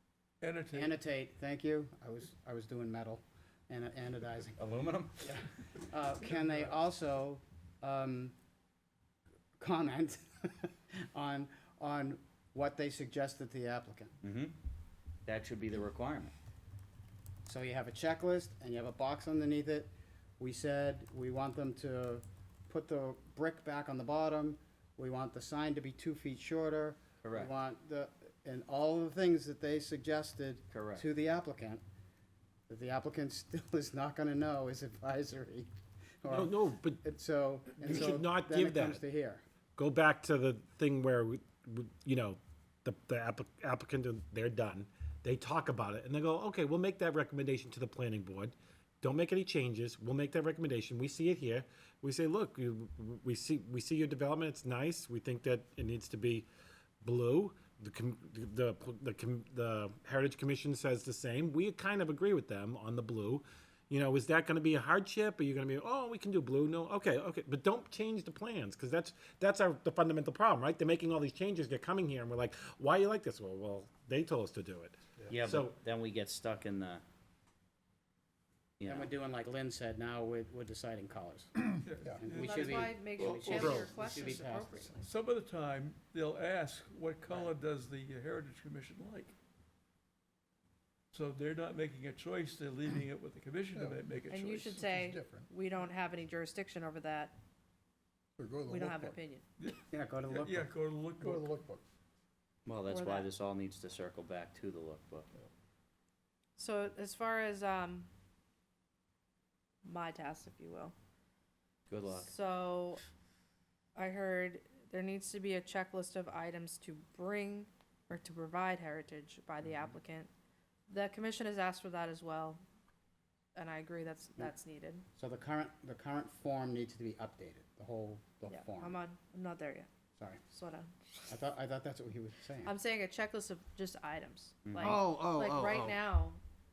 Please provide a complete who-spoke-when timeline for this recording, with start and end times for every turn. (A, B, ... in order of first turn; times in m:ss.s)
0:00.4-0:01.0 A
0:00.7-0:04.6 B
0:04.6-0:05.3 C
0:05.2-0:08.4 B
0:09.6-0:14.2 B
0:14.2-0:14.5 C
0:15.3-0:16.3 C
0:17.5-0:31.8 B
0:27.2-0:27.5 C
0:30.7-0:31.1 C
0:32.7-0:35.7 B
0:36.2-0:39.4 B
0:36.3-0:37.0 D
0:37.8-0:39.0 D
0:39.8-0:56.5 D
0:57.0-1:15.8 D
1:15.3-1:17.0 C
1:18.8-1:19.1 C
1:18.9-1:21.5 B
1:21.9-1:23.8 A
1:22.2-1:24.9 B
1:22.3-1:25.1 E
1:23.6-1:23.9 D
1:25.0-1:29.3 A
1:31.1-1:35.0 A
1:33.8-1:34.0 F
1:34.3-1:37.4 E
1:34.9-1:35.5 F
1:38.4-1:39.2 F
1:38.7-1:39.4 E
1:39.6-1:41.6 A
1:39.9-1:40.7 B
1:41.2-1:41.8 F
1:42.7-1:45.3 C
1:42.9-1:43.3 E
1:46.6-1:48.1 E
1:49.8-1:50.9 E
1:51.9-1:52.3 C
1:52.1-1:53.0 E
1:54.0-2:00.3 E
2:00.9-2:02.6 E
2:03.6-2:05.0 E
2:05.2-2:09.0 B
2:08.5-2:09.9 E
2:10.5-2:10.9 E
2:11.3-2:12.7 B
2:12.7-2:16.4 E
2:14.7-2:15.1 C
2:14.8-2:16.0 B